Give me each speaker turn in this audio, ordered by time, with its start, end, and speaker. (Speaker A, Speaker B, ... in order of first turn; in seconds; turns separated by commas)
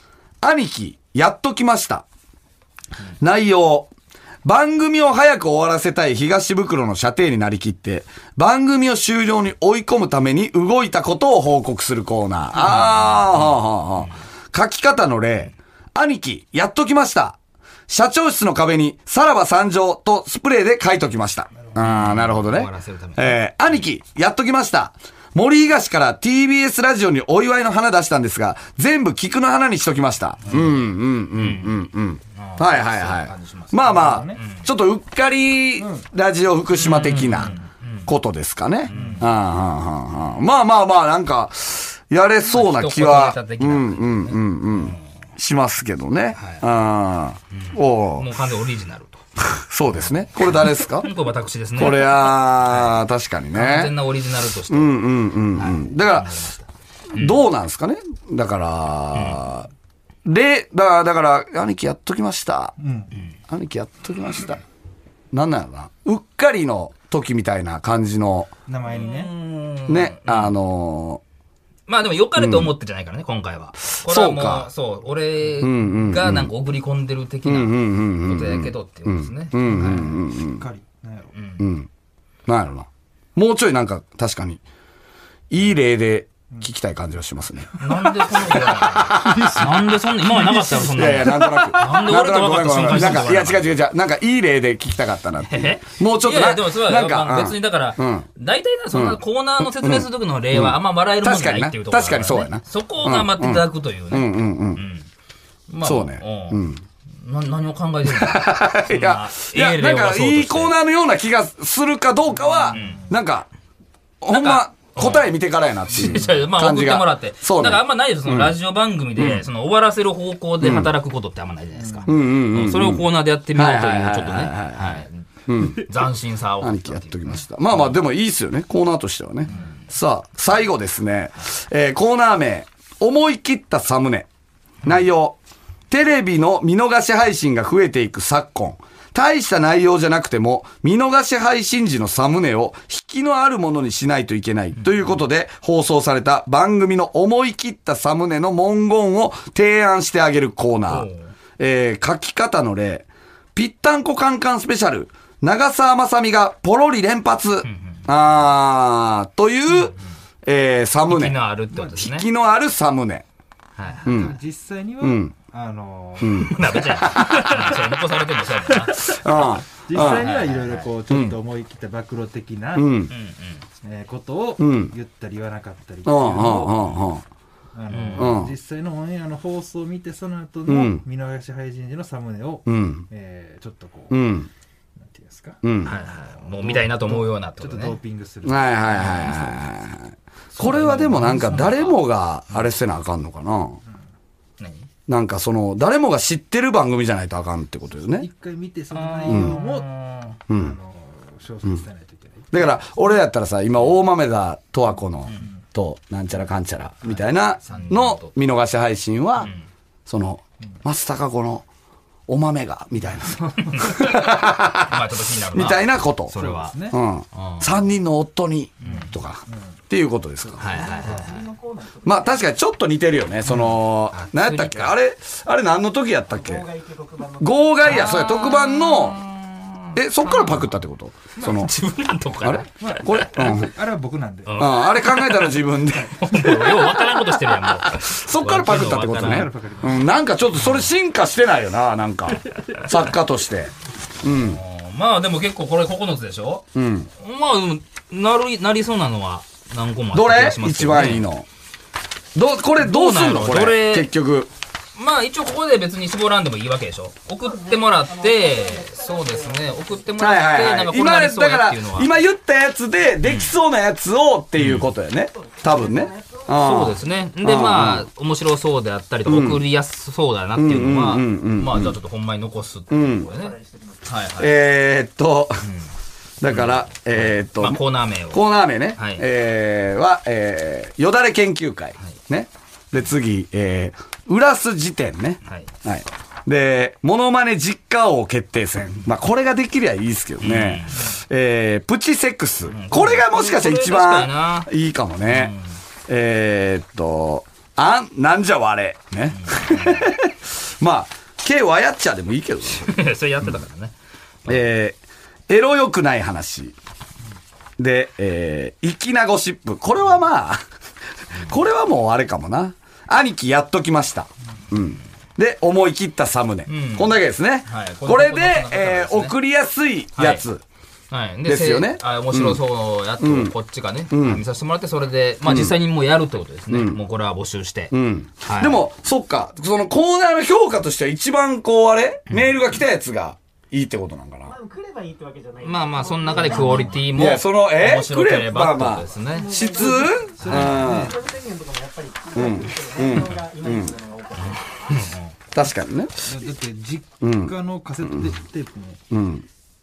Speaker A: 0.4-2.0, Speaker A: 3.2-3.9, Speaker A: 4.4-17.4, Speaker B: 12.6-13.6, Speaker A: 17.9-48.3, Speaker B: 21.8-23.4, Speaker B: 30.4-30.8, Speaker B: 31.3-31.8, Speaker B: 32.3-34.7, Speaker C: 33.8-34.4, Speaker B: 36.8-38.1, Speaker B: 38.9-39.3, Speaker C: 38.9-39.2, Speaker B: 42.5-45.0, Speaker B: 46.4-46.6, Speaker B: 47.5-49.2, Speaker A: 49.4-51.1, Speaker B: 50.4-53.0, Speaker A: 51.8-53.9, Speaker B: 53.5-57.4, Speaker A: 54.7-56.4, Speaker A: 57.1-59.7, Speaker B: 59.1-59.4, Speaker A: 60.2-62.7, Speaker C: 62.8-63.1, Speaker A: 63.5-64.6, Speaker A: 65.3-68.5, Speaker C: 68.7-69.3, Speaker B: 68.9-70.5, Speaker A: 69.9-71.2, Speaker B: 71.9-80.1, Speaker A: 72.4-72.7, Speaker A: 74.0-74.7, Speaker A: 75.6-76.5, Speaker A: 77.4-80.6, Speaker C: 79.7-81.3, Speaker B: 81.3-81.6, Speaker A: 81.6-81.9, Speaker A: 82.5-84.6, Speaker A: 85.5-89.7, Speaker B: 87.8-93.7, Speaker C: 89.1-91.9, Speaker A: 90.6-98.3, Speaker B: 95.5-105.1, Speaker A: 98.9-104.8, Speaker B: 105.7-106.7, Speaker A: 105.8-106.8, Speaker B: 107.2-110.8, Speaker A: 108.1-113.5, Speaker C: 112.6-113.0, Speaker B: 112.7-113.0, Speaker A: 114.2-118.5, Speaker B: 114.3-115.3, Speaker B: 115.9-128.0, Speaker A: 119.2-119.4, Speaker A: 120.6-120.9, Speaker C: 121.8-122.2, Speaker A: 122.1-125.9, Speaker A: 126.6-134.3, Speaker A: 134.8-135.4, Speaker A: 135.9-151.1, Speaker B: 144.8-145.1, Speaker B: 150.9-151.3, Speaker A: 151.6-163.2, Speaker B: 157.6-158.0, Speaker B: 159.7-160.0, Speaker B: 161.1-162.3, Speaker B: 163.8-164.3, Speaker C: 164.0-167.6, Speaker A: 164.0-164.3, Speaker A: 165.0-165.3, Speaker A: 166.2-167.7, Speaker B: 166.3-169.2, Speaker C: 168.9-169.2, Speaker A: 169.0-170.3, Speaker C: 169.8-173.1, Speaker B: 169.9-170.9, Speaker A: 171.1-171.4, Speaker A: 172.7-173.1, Speaker B: 173.1-173.6, Speaker C: 173.8-177.0, Speaker A: 174.6-174.9, Speaker A: 176.0-177.2, Speaker C: 177.7-184.4, Speaker B: 177.9-178.3, Speaker A: 178.2-178.5, Speaker A: 180.7-181.0, Speaker A: 182.7-183.1, Speaker A: 184.1-184.5, Speaker C: 185.0-185.6, Speaker A: 185.6-185.9, Speaker B: 185.8-187.9, Speaker C: 186.5-189.7, Speaker A: 188.4-193.8, Speaker C: 190.5-191.8, Speaker B: 190.6-192.0, Speaker B: 194.6-194.9, Speaker A: 195.1-198.3, Speaker C: 198.0-199.9, Speaker B: 198.9-200.4, Speaker A: 199.3-199.6, Speaker A: 200.5-200.8, Speaker C: 200.5-203.0, Speaker A: 202.5-209.5, Speaker B: 207.6-208.3, Speaker A: 210.1-211.6, Speaker A: 212.3-216.3, Speaker B: 213.4-216.8, Speaker C: 216.4-217.0, Speaker A: 216.9-220.8, Speaker B: 217.3-217.7, Speaker C: 218.8-219.6, Speaker B: 218.8-219.1, Speaker B: 220.6-221.4, Speaker D: 220.6-222.6, Speaker A: 222.0-226.7, Speaker B: 223.5-225.0, Speaker D: 226.3-227.9, Speaker A: 227.4-229.2, Speaker B: 227.8-230.7, Speaker A: 229.9-231.7, Speaker C: 231.4-231.7, Speaker B: 231.4-233.6, Speaker A: 232.4-233.7, Speaker C: 232.8-234.8, Speaker B: 234.4-239.5, Speaker A: 234.6-236.8, Speaker A: 237.5-244.6, Speaker C: 239.2-240.1, Speaker B: 244.3-246.7, Speaker A: 246.7-247.1, Speaker B: 247.2-251.3, Speaker A: 250.1-251.4, Speaker A: 252.3-254.5, Speaker B: 252.8-254.1, Speaker B: 254.9-262.1, Speaker D: 257.4-260.2, Speaker A: 260.2-268.1, Speaker B: 263.2-263.5, Speaker B: 264.6-264.9, Speaker D: 265.3-266.8, Speaker B: 266.5-274.5, Speaker A: 269.2-269.6, Speaker A: 270.6-271.9, Speaker A: 272.9-273.3, Speaker D: 273.2-274.1, Speaker A: 274.4-275.7, Speaker A: 276.4-295.6, Speaker B: 276.5-279.2, Speaker B: 285.4-285.7, Speaker B: 290.4-291.1, Speaker B: 292.7-294.7, Speaker B: 295.3-295.7, Speaker A: 296.1-303.5, Speaker B: 299.4-300.0, Speaker B: 302.7-303.9, Speaker A: 304.5-305.0, Speaker A: 305.5-306.8, Speaker A: 307.8-310.6, Speaker A: 311.4-320.6, Speaker B: 316.7-319.3, Speaker B: 320.1-320.4, Speaker B: 321.1-328.8, Speaker A: 321.4-322.6, Speaker A: 323.2-323.5, Speaker A: 324.1-324.4, Speaker A: 325.4-325.8, Speaker A: 326.7-327.0, Speaker A: 327.9-334.5, Speaker D: 334.4-337.1, Speaker B: 335.6-339.5, Speaker A: 336.8-341.1, Speaker D: 339.2-345.2, Speaker C: 339.8-341.2, Speaker A: 342.3-343.9, Speaker B: 344.4-345.3, Speaker A: 345.5-346.1, Speaker C: 346.2-349.0, Speaker A: 347.2-347.5, Speaker A: 348.0-348.3, Speaker A: 349.1-349.4